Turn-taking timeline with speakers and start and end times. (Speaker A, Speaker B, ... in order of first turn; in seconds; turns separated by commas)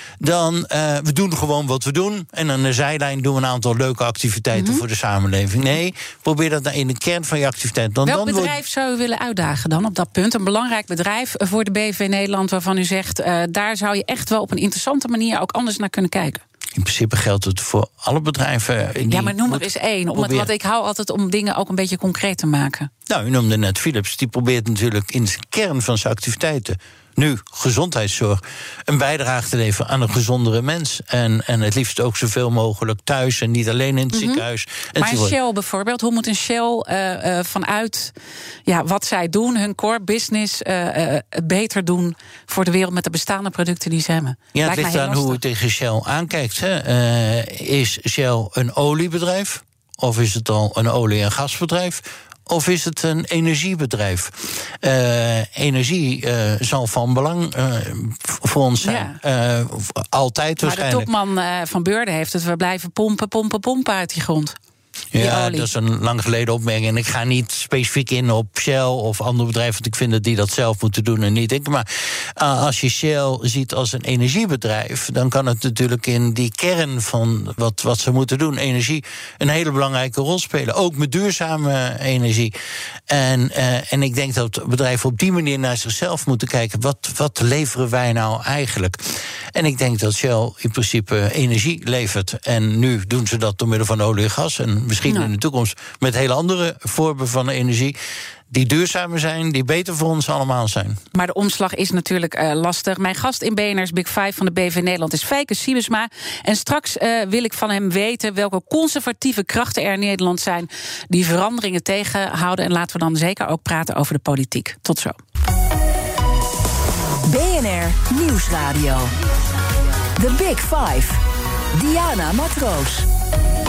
Speaker A: 0.2-8.6, Speaker B: 4.5-4.8, Speaker B: 8.0-16.4, Speaker A: 16.7-20.5, Speaker B: 19.1-22.9, Speaker A: 23.1-35.4, Speaker B: 34.1-34.4, Speaker B: 35.0-38.1, Speaker B: 38.7-45.4, Speaker A: 44.5-61.1, Speaker B: 58.8-59.2, Speaker B: 60.6-64.5, Speaker A: 65.1-82.5, Speaker B: 65.2-65.7, Speaker A: 83.1-98.0, Speaker A: 98.5-101.0, Speaker B: 101.1-115.2, Speaker C: 117.2-119.1, Speaker C: 120.2-121.2, Speaker C: 121.7-123.1